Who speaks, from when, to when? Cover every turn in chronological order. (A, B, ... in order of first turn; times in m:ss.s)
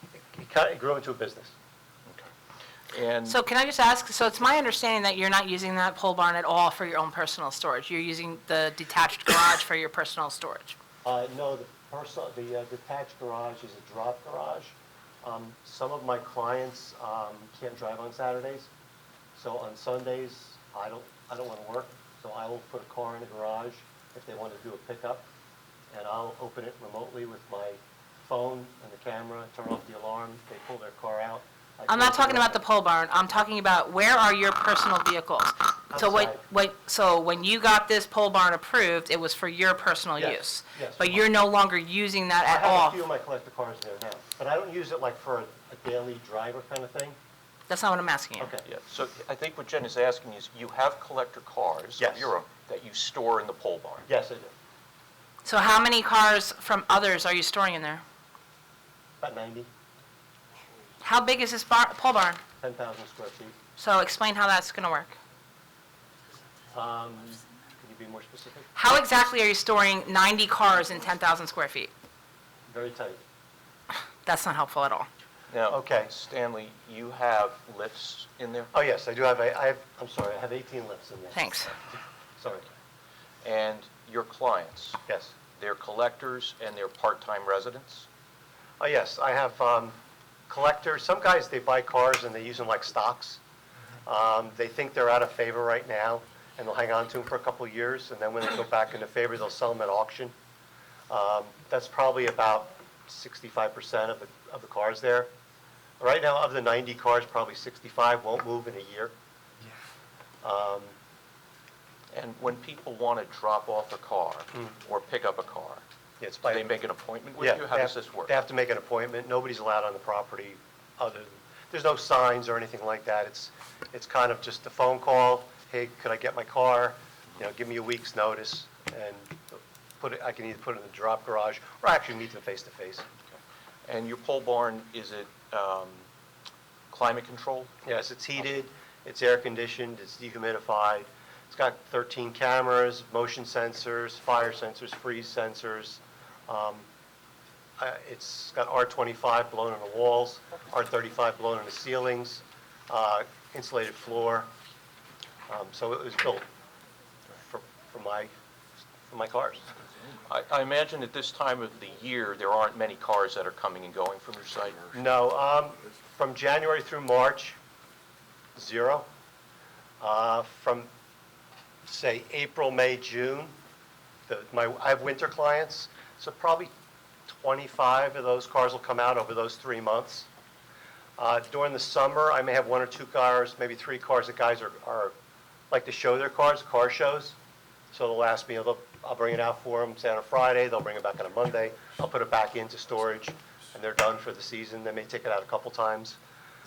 0:00.2-0:01.5 A
0:02.9-0:03.4 B
0:03.3-0:10.8 C
0:11.0-0:18.7 A
0:19.4-0:25.3 A
0:25.9-0:32.6 A
0:31.9-0:43.0 C
0:35.9-0:36.4 A
0:40.2-0:41.3 A
0:42.4-0:47.2 A
0:47.7-0:48.5 C
0:48.4-0:48.6 A
0:48.7-0:54.1 B
0:52.0-0:52.3 A
0:54.1-0:54.5 A
0:55.4-0:58.0 C
0:59.2-0:59.7 A
1:01.0-1:02.4 C
1:02.6-1:03.6 A
1:03.8-1:05.2 C
1:06.7-1:08.7 A
1:08.8-1:11.9 C
1:12.7-1:13.2 A
1:14.2-1:15.1 C
1:15.5-1:18.7 B
1:15.7-1:16.1 A
1:18.7-1:22.7 A
1:21.4-1:21.7 C
1:23.4-1:25.0 B
1:25.1-1:25.3 A
1:25.6-1:28.1 B
1:28.8-1:30.0 A
1:30.5-1:33.4 A
1:34.1-1:40.3 A
1:41.1-1:45.3 A
1:46.0-1:49.1 A
1:50.4-1:51.0 A
1:52.1-1:55.8 B
1:56.2-1:56.7 A
1:56.4-1:58.4 B
1:57.4-2:13.1 A
2:13.3-2:16.1 B
2:16.9-2:17.7 B
2:17.8-2:26.9 A
2:27.8-2:34.5 A
2:35.5-2:36.5 A
2:37.4-2:38.3 A
2:39.1-2:39.7 A
2:40.3-2:45.0 B
2:45.0-2:47.6 A
2:48.6-2:49.1 A
2:50.0-2:50.9 A
2:51.9-2:53.6 A
2:54.3-2:56.7 A
2:57.3-3:00.3 A
3:01.2-3:05.1 A
3:05.7-3:07.4 A
3:07.9-3:16.2 A